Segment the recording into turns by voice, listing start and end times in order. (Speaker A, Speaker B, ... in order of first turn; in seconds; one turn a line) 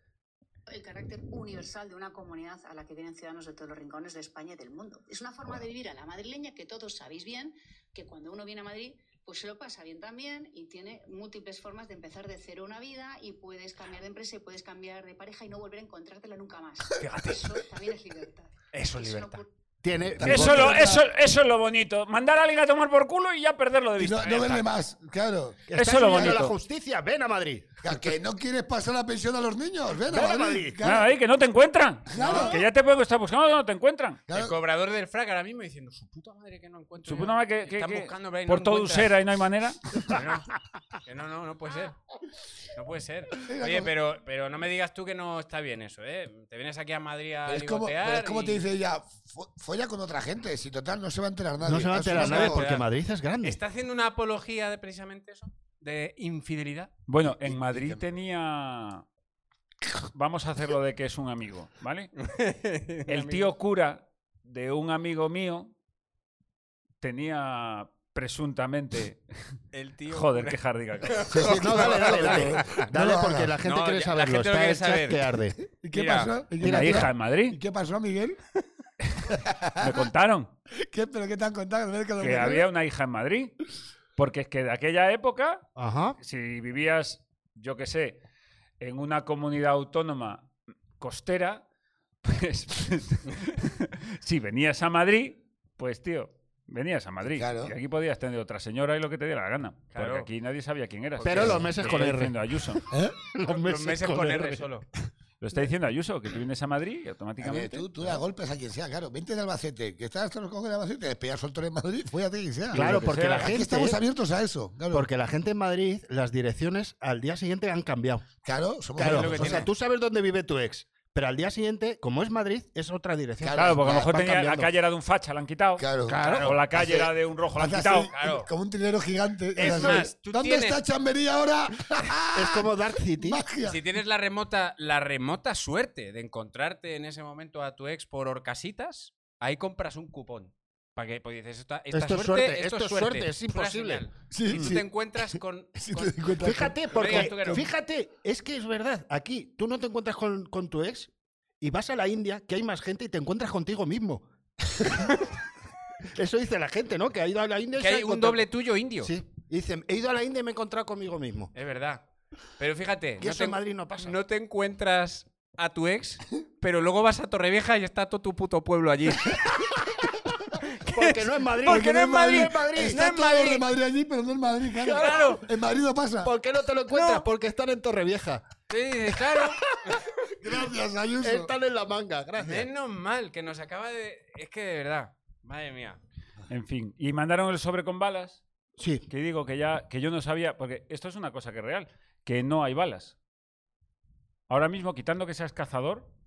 Speaker A: 0.7-19.4
Speaker B: 17.0-17.5
Speaker B: 18.7-19.4
Speaker C: 19.8-21.0
Speaker D: 20.1-21.0
Speaker E: 20.2-24.7
Speaker D: 24.0-26.5
Speaker C: 25.7-27.7
Speaker E: 25.7-26.5
Speaker D: 27.8-31.1
Speaker C: 30.1-30.8
Speaker E: 30.8-34.3
Speaker D: 32.1-32.6
Speaker B: 32.2-32.6
Speaker D: 34.3-34.5
Speaker B: 34.3-39.2
Speaker E: 37.0-40.2
Speaker B: 40.1-40.5
Speaker B: 41.0-42.0
Speaker B: 42.7-48.6
Speaker D: 43.5-43.9
Speaker D: 47.5-52.7
Speaker C: 51.6-53.6
Speaker B: 52.1-52.9
Speaker B: 53.4-56.9
Speaker E: 57.1-59.0
Speaker D: 57.2-58.0
Speaker E: 60.1-62.1
Speaker B: 62.2-63.5
Speaker E: 63.1-65.7
Speaker E: 67.0-69.2
Speaker B: 69.7-72.9
Speaker E: 70.1-71.3
Speaker C: 71.3-75.6
Speaker D: 71.3-73.6
Speaker B: 73.6-75.2
Speaker D: 75.7-78.4
Speaker B: 75.9-76.4
Speaker E: 76.6-77.6
Speaker C: 76.6-77.1
Speaker D: 79.3-80.1
Speaker E: 79.8-80.5
Speaker D: 80.7-82.7
Speaker E: 82.2-83.5
Speaker E: 84.2-85.7
Speaker C: 85.8-86.2
Speaker E: 86.2-88.2
Speaker E: 88.8-91.6
Speaker E: 92.2-102.8
Speaker D: 97.2-97.7
Speaker B: 99.9-100.3
Speaker B: 101.2-101.5
Speaker C: 101.2-104.7
Speaker D: 101.4-101.6
Speaker D: 102.9-103.1
Speaker B: 103.5-104.8
Speaker E: 105.4-107.9
Speaker D: 107.4-115.1
Speaker E: 112.7-113.6
Speaker C: 112.7-114.0
Speaker C: 114.9-118.3
Speaker D: 118.4-119.7
Speaker C: 119.0-124.7
Speaker B: 119.0-119.7
Speaker D: 123.4-124.2
Speaker E: 123.5-128.1
Speaker D: 125.8-133.8
Speaker C: 126.1-126.5
Speaker B: 126.1-126.6
Speaker B: 128.1-128.5
Speaker B: 129.6-130.8
Speaker C: 129.6-130.1
Speaker C: 132.3-133.4
Speaker B: 133.6-147.7
Speaker C: 141.9-144.0
Speaker D: 144.3-147.6
Speaker C: 146.4-154.2
Speaker C: 154.8-155.1
Speaker C: 156.1-158.4
Speaker B: 157.8-159.1
Speaker C: 159.0-161.5
Speaker B: 161.5-162.0
Speaker B: 162.6-169.7
Speaker C: 163.2-164.2
Speaker B: 170.8-173.6
Speaker C: 170.9-173.2
Speaker D: 171.6-176.3
Speaker C: 174.8-175.3
Speaker B: 174.9-175.4
Speaker C: 176.2-178.4
Speaker B: 176.9-177.2
Speaker B: 178.7-179.6
Speaker C: 179.1-179.6
Speaker D: 180.4-181.5
Speaker C: 181.2-182.7
Speaker B: 182.4-186.0
Speaker E: 186.5-188.4
Speaker C: 188.8-189.1
Speaker E: 189.1-193.1
Speaker E: 194.5-196.1